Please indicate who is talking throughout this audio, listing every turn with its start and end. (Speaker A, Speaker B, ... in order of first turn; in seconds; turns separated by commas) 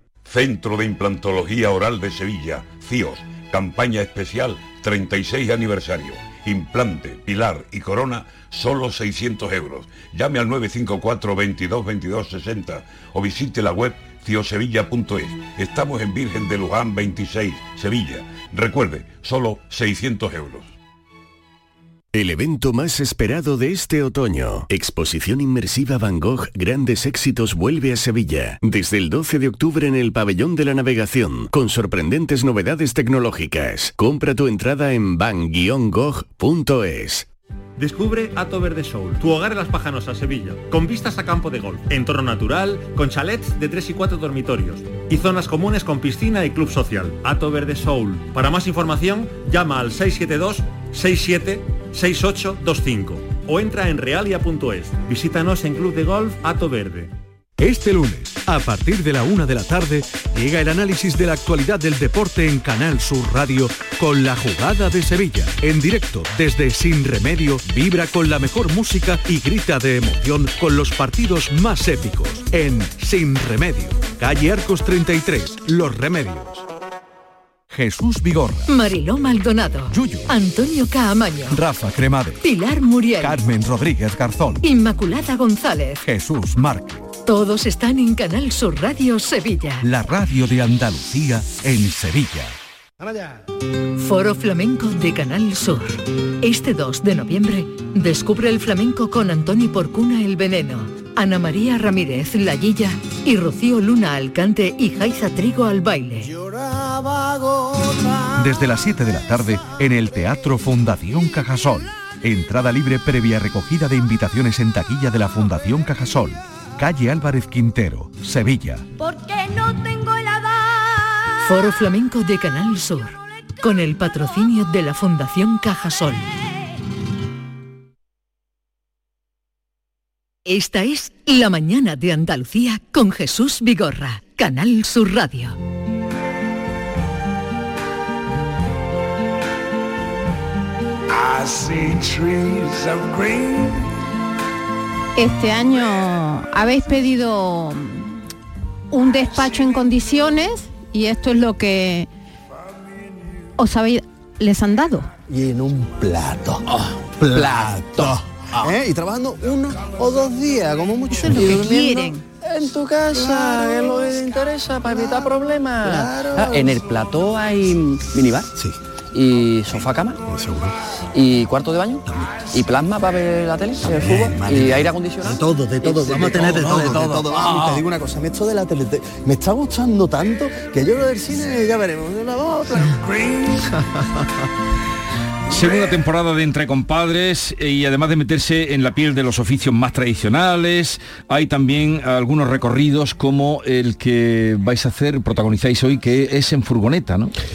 Speaker A: 0.3-20.7, Speaker B: 22.1-37.3, Speaker C: 37.8-57.1, Speaker D: 57.6-76.7, Speaker D: 77.7-78.7, Speaker E: 78.7-81.6, Speaker D: 79.9-80.3, Speaker D: 81.5-82.4, Speaker E: 82.4-83.4, Speaker D: 83.2-84.7, Speaker E: 84.6-86.0, Speaker D: 86.0-87.0, Speaker E: 87.2-89.8, Speaker D: 89.8-92.5, Speaker E: 94.0-106.3, Speaker D: 108.3-118.8, Speaker E: 121.4-126.3, Speaker E: 130.5-135.6, Speaker F: 145.2-148.2, Speaker F: 148.9-152.1, Speaker F: 153.6-155.1, Speaker G: 155.3-156.6, Speaker H: 156.8-158.2, Speaker G: 157.2-161.4, Speaker F: 161.1-162.2, Speaker H: 161.3-168.5, Speaker G: 165.8-166.6, Speaker H: 169.1-170.2, Speaker H: 171.1-177.8, Speaker G: 174.2-174.6, Speaker G: 175.3-183.4, Speaker I: 185.5-197.3